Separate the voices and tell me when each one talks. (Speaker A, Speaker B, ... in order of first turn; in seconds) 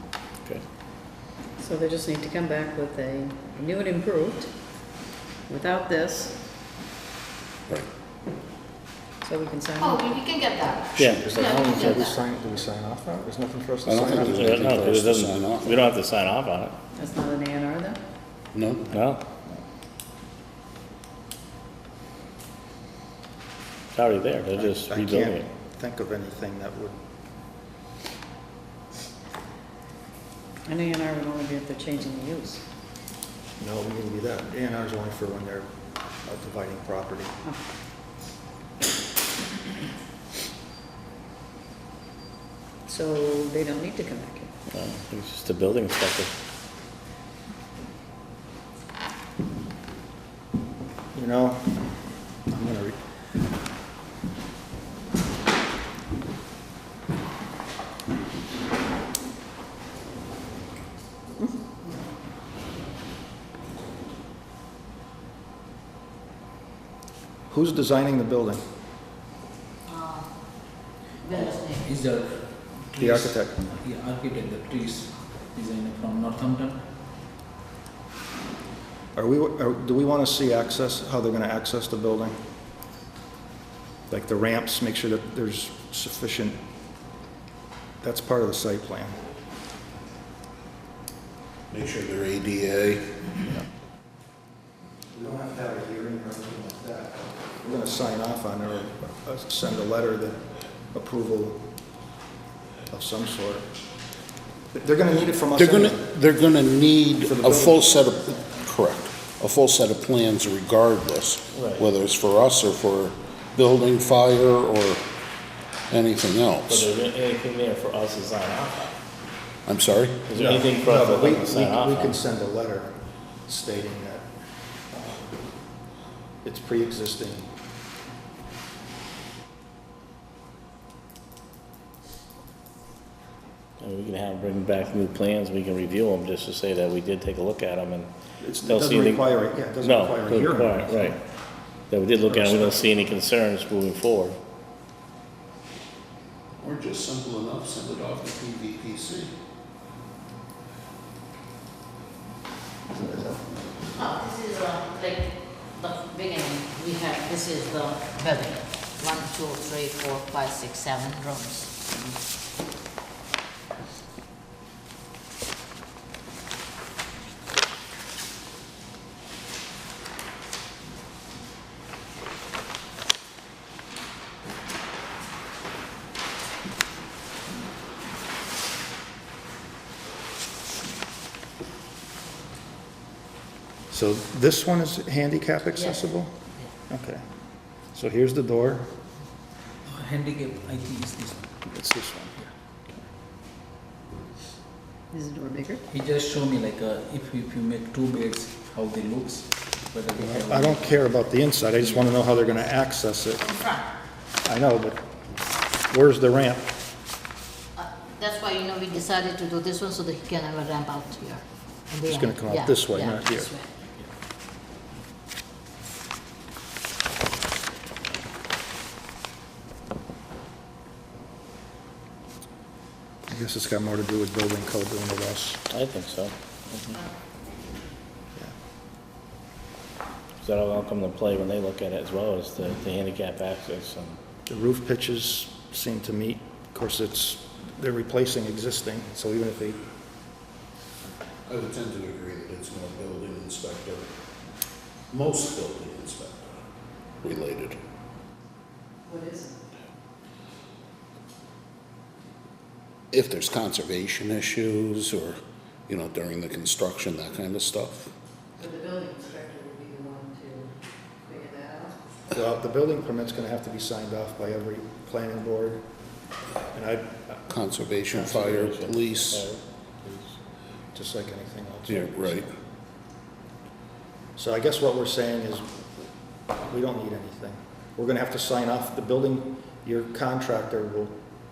Speaker A: 1.6-4.5, 5.5-6.3, 9.2-10.1, 16.9-18.0, 30.7-32.6, 42.9-44.5, 195.1-195.8, 249.1-249.6, 258.6-260.7, 261.2-262.0
Speaker B: 9.8-12.2, 69.8-70.3, 71.2-71.9, 153.9-161.9, 185.7-186.0, 203.4-203.9, 207.8-213.7
Speaker C: 11.0-12.1, 14.2-16.8, 18.9-19.2, 23.9-25.5, 44.7-46.3, 111.5-111.8, 116.7-118.9, 120.3-122.2, 133.8-138.1, 138.6-141.2, 141.9-144.4, 225.7-226.9, 230.4-234.2, 268.1-270.4
Speaker D: 11.0-14.7, 24.5-27.0, 33.6-35.7, 36.2-37.3, 51.1-52.0, 52.5-53.0, 67.5-68.6, 73.0-73.6, 79.2-82.4, 84.1-86.6, 88.0-89.3, 95.1-101.6, 102.9-103.7, 104.7-106.1, 107.2-108.2, 120.3-123.0, 123.5-124.3, 124.9-125.4, 126.4-127.5, 138.4-141.2, 142.3-142.9, 152.9-153.5, 183.9-186.3, 186.9-187.2, 187.9-188.9, 191.7-192.4, 200.2-203.4, 204.4-205.0, 205.9-206.7, 212.1-213.5, 223.3-225.6, 234.5-239.8, 262.3-265.9, 266.7-267.5, 270.9-272.5, 274.4-275.9, 276.6-281.2
Speaker E: 13.9-15.8, 18.5-18.9, 91.7-93.2, 105.5-115.1, 115.9-116.9, 119.7-120.3, 146.6-149.3, 241.5-244.1, 245.1-246.6, 247.2-247.8, 253.1-258.1, 267.5-269.5, 271.9-272.5
Speaker F: 71.3-76.8, 189.9-191.4, 195.9-201.1